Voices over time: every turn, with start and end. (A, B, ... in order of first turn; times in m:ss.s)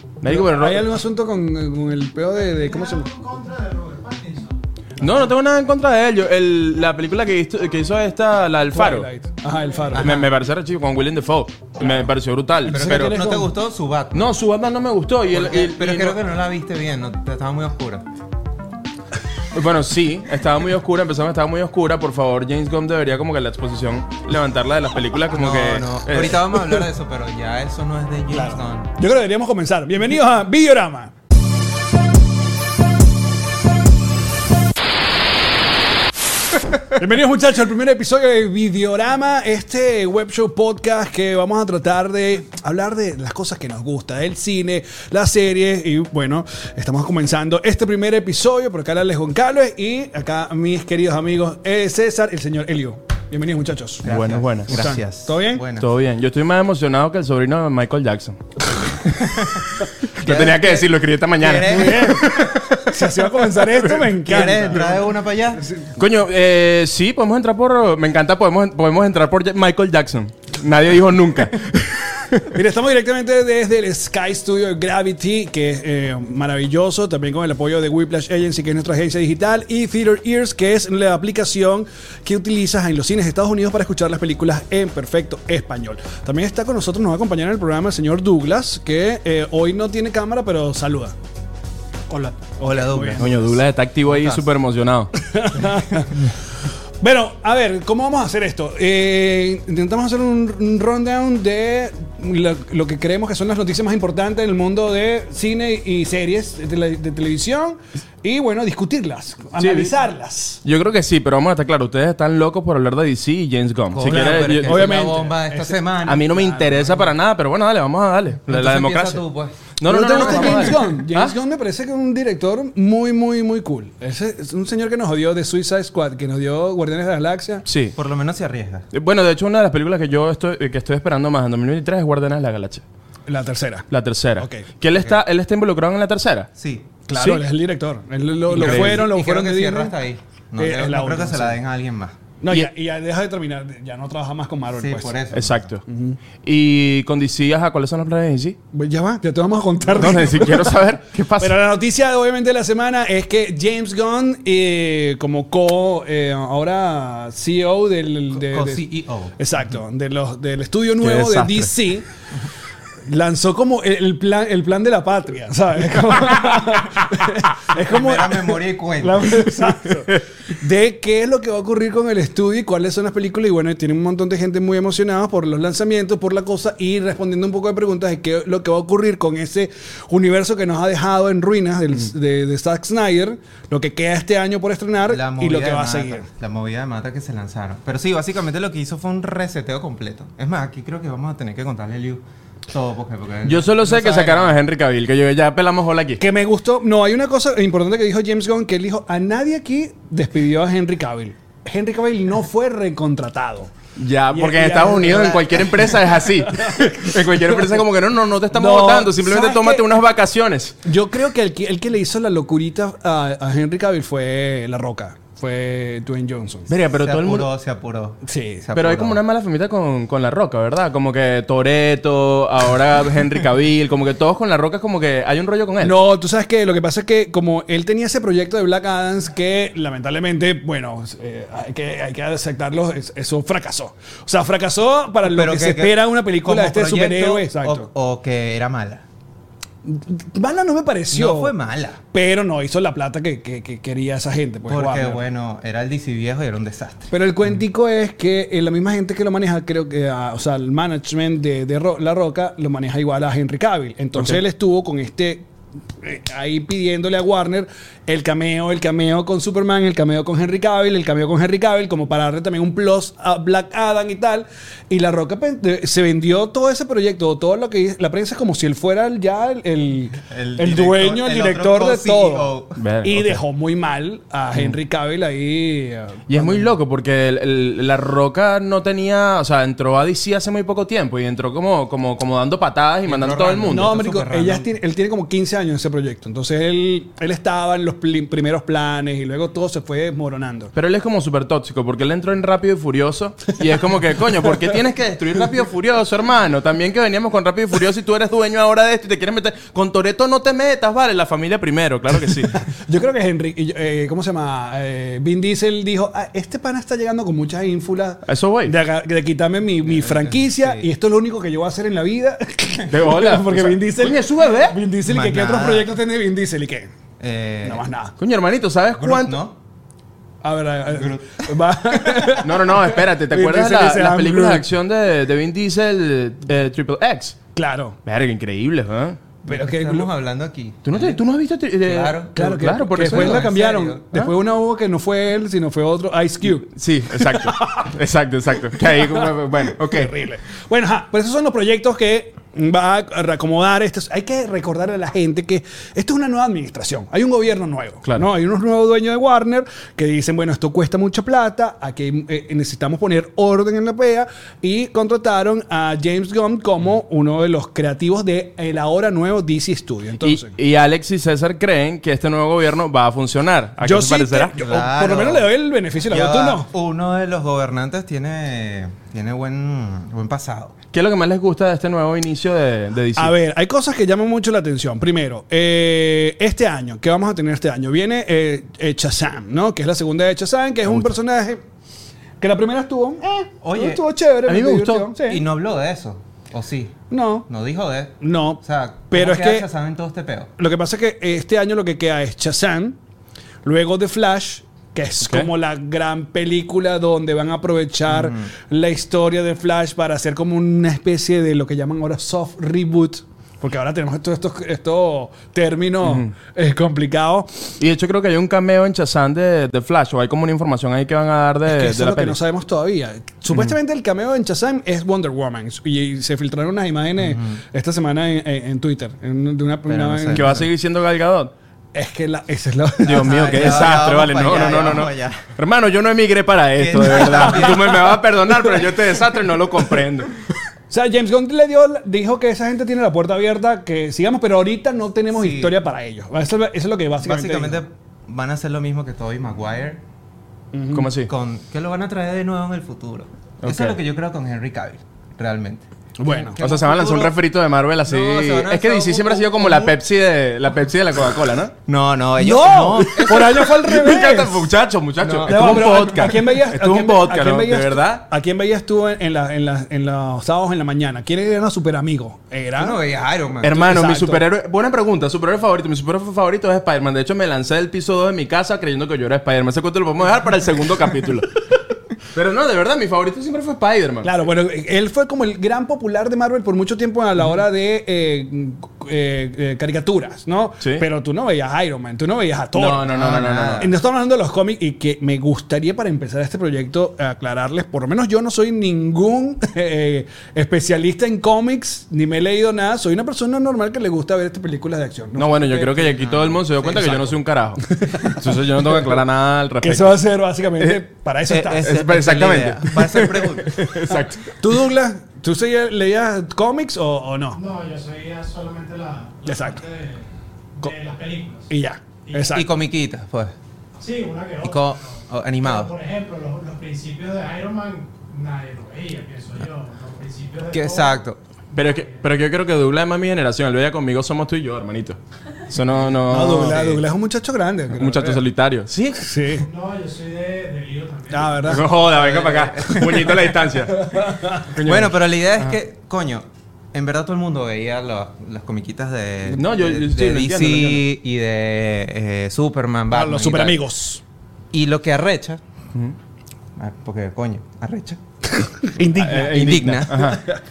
0:00.2-0:00.9 A
0:00.3-0:03.1 B
0:02.4-0:04.6 C
0:05.0-0:09.1 A
0:08.7-0:10.2 B
0:09.9-0:10.2 D
0:10.0-0:13.2 A
0:12.7-0:13.5 B
0:12.7-0:14.3 D
0:14.1-0:16.2 A
0:15.3-0:18.0 D
0:19.5-0:26.4 A
0:25.3-0:28.9 D
0:28.3-0:31.1 B
0:36.9-0:54.1 B
0:54.0-0:55.9 D
0:54.0-0:55.0 A
0:54.7-0:55.6 B
0:55.8-0:58.4 A
0:59.1-0:59.6 D
1:00.2-1:04.8 A
1:00.2-1:02.2 D
1:01.6-1:02.3 B
1:02.8-1:05.0 B
1:04.2-1:05.6 D
1:05.6-1:05.9 B
1:06.0-1:12.4 A
1:12.5-1:31.2 B
1:32.1-1:33.3 B
1:32.6-1:33.6 D
1:33.2-1:35.1 A
1:34.1-1:34.4 D
1:35.2-1:36.2 B
1:37.0-1:50.6 B
1:49.6-1:49.9 A
1:50.6-1:55.1 A
1:53.9-1:57.1 D
1:54.1-1:55.9 B
1:56.0-1:59.2 A
1:58.5-2:00.7 D
1:59.8-2:01.3 A
1:59.9-2:07.6 B
2:07.7-2:08.0 A
2:08.0-2:08.8 D
2:08.9-2:12.8 A
2:13.3-2:14.7 B
2:13.9-2:16.5 A
2:16.6-2:16.9 D
2:17.1-2:20.0 B
2:17.2-2:17.4 A
2:18.5-2:22.2 D
2:18.5-2:19.0 A
2:20.6-2:21.6 B
2:22.4-2:25.2 B
2:24.8-2:25.7 D
2:25.3-2:25.8 A
2:25.9-2:26.2 B
2:26.4-2:28.6 A
2:28.7-2:30.8 B
2:30.0-2:31.6 A
2:31.4-2:38.8 B
2:38.3-2:39.3 D
2:39.4-2:42.1 B
2:41.0-2:41.7 A
2:43.1-3:06.3 B
2:47.7-2:49.7 D
3:05.1-3:14.6 D
3:13.4-3:16.2 A
3:16.2-3:23.7 B
3:24.0-3:30.8 A
3:24.3-3:27.1 B
3:28.5-3:29.9 B
3:30.8-3:36.7 B
3:36.7-3:37.5 A
3:37.0-3:39.2 D
3:38.2-3:38.7 B
3:38.8-3:46.0 A
3:45.8-3:57.9 B
3:55.2-3:59.0 D
3:59.8-4:01.5 B
4:01.1-4:02.0 D
4:02.1-4:05.2 B
4:04.7-4:07.1 D
4:07.1-4:15.5 B
4:16.0-4:36.7 B
4:30.3-4:32.8 D
4:32.8-4:33.4 A
4:36.3-4:43.9 A
4:43.1-4:44.7 D
4:43.7-4:50.7 B
4:50.8-5:02.6 A
5:02.4-5:16.9 B
5:08.3-5:08.7 A
5:09.8-5:10.9 D
5:12.9-5:14.8 A
5:15.0-5:15.9 D
5:17.2-5:17.8 D
5:17.6-5:18.1 B
5:18.2-5:19.4 A
5:19.0-5:19.6 D
5:20.4-5:24.7 B
5:20.9-5:21.5 D
5:22.4-5:27.4 A
5:27.6-5:28.0 B
5:28.1-5:29.2 A
5:29.4-5:30.1 B
5:29.5-5:31.2 D
5:30.8-5:33.5 A
5:31.8-5:32.4 D
5:32.4-5:37.9 B
5:33.0-5:34.1 D
5:36.7-5:40.1 A
5:38.8-6:00.5 B
6:00.2-6:04.5 A
6:03.8-6:06.7 B
6:04.6-6:05.5 D
6:06.1-6:10.8 D
6:10.9-6:13.3 A
6:13.2-6:21.6 B
6:22.4-6:25.4 B
6:23.6-6:24.0 D
6:24.4-6:25.1 A
6:25.2-6:30.5 D
6:27.1-6:27.5 B
6:28.2-6:29.7 B
6:30.6-6:33.0 B
6:33.6-6:47.6 B
6:35.2-6:35.5 A
6:38.1-6:38.5 D
6:46.0-6:46.3 A
6:47.8-6:52.4 A
6:51.7-7:00.6 B
6:57.2-6:57.6 D
6:59.9-7:00.7 D
7:00.3-7:01.5 A
7:01.9-7:04.1 B
7:03.0-7:05.5 D
7:03.0-7:10.4 A
7:06.8-7:08.1 D
7:07.3-7:08.0 B
7:10.9-7:17.8 B
7:15.3-7:15.8 D
7:17.2-7:20.0 D
7:20.7-7:21.1 B
7:20.9-7:21.3 A
7:21.3-7:27.4 D
7:23.6-7:24.0 A
7:26.2-7:26.6 B
7:26.6-7:31.7 A
7:28.1-7:30.0 D
7:31.9-7:33.8 D
7:32.4-7:34.7 B
7:33.2-7:38.2 A
7:35.2-7:36.4 D
7:35.4-7:43.0 B
7:42.8-7:43.8 D
7:43.6-7:51.6 A
7:43.7-7:44.4 B
7:52.3-7:54.3 A
7:54.2-8:03.1 B
8:02.8-8:03.9 A
8:03.1-8:03.9 D
8:03.8-8:16.2 B
8:15.4-8:20.2 A
8:16.2-8:17.4 D
8:18.0-8:18.6 B
8:19.8-8:22.0 B
8:21.5-8:23.9 D
8:21.8-8:24.4 A
8:24.1-8:27.6 B
8:27.5-8:30.3 C
8:29.4-8:29.8 B
8:30.8-8:31.7 C
8:31.7-8:32.7 B
8:32.3-8:32.6 C
8:32.5-8:33.5 D
8:34.0-8:41.2 C
8:34.6-8:35.9 D
8:40.7-8:41.4 D
8:41.7-8:47.0 A
8:46.2-8:48.4 B
8:48.0-8:49.3 A
8:49.2-8:49.7 B
8:49.5-8:51.7 C
8:51.3-8:51.9 B
8:51.6-8:55.7 A
8:51.8-8:53.4 D
8:53.9-8:54.7 B
8:54.8-9:03.8 D
8:59.5-9:01.0 A
9:03.1-9:04.2 B
9:04.7-9:05.6 D
9:06.8-9:08.2 D
9:08.6-9:10.6 B
9:09.2-9:10.4 A
9:09.2-9:10.4 D